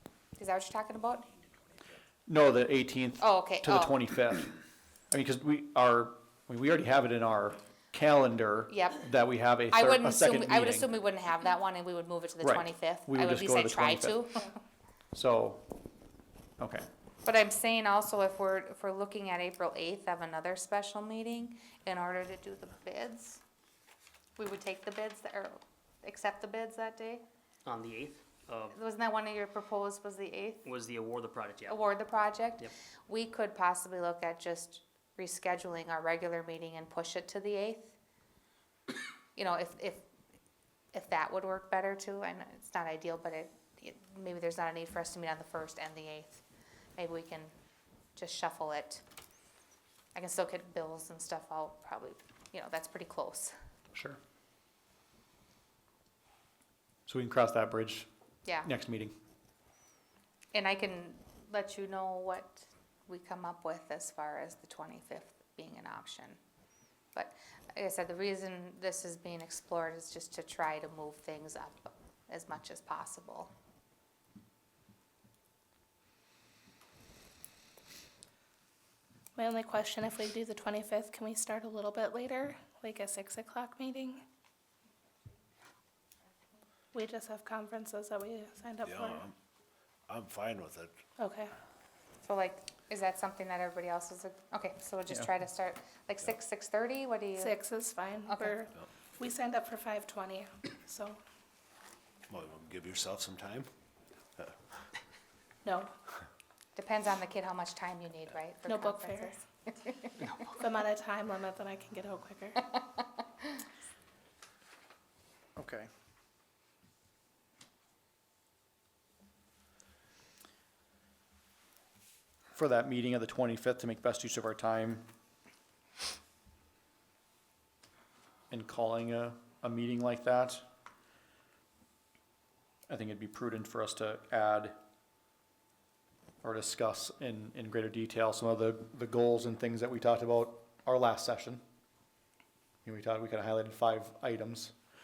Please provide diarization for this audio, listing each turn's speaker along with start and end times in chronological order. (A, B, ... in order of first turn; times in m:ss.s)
0:00.4-0:01.3 A
0:02.3-0:04.5 B
0:03.2-0:04.0 A
0:05.1-0:10.9 B
0:08.7-0:09.0 A
0:09.7-0:14.5 A
0:12.4-0:14.2 B
0:15.1-0:15.6 B
0:16.6-0:16.8 B
0:17.2-0:23.4 A
0:24.4-0:27.2 A
0:27.6-0:28.8 C
0:28.7-0:30.6 A
0:30.6-0:31.8 C
0:31.7-0:37.9 A
0:39.4-0:40.0 A
0:40.9-0:46.4 A
0:47.0-0:47.5 A
0:48.2-0:49.0 A
0:50.1-0:53.5 A
0:53.9-0:54.2 B
0:57.1-0:58.1 B
0:58.4-0:58.7 A
0:58.6-0:59.1 B
1:00.5-1:06.4 A
1:07.1-1:13.5 A
1:19.4-1:24.2 D
1:26.9-1:29.2 D
1:28.8-1:29.4 E
1:30.1-1:30.9 E
1:31.2-1:31.5 D
1:32.2-1:37.6 A
1:37.4-1:41.2 D
1:38.2-1:38.6 A
1:42.3-1:43.7 E
1:45.6-1:45.9 D
1:46.8-1:50.1 A
1:48.6-1:49.4 D
1:50.2-1:50.4 C
1:50.5-1:52.7 D
1:55.6-1:55.9 B
2:02.5-2:05.0 B
2:08.5-2:10.6 B
2:12.9-2:14.8 B
2:16.4-2:21.6 B
2:22.8-2:24.7 B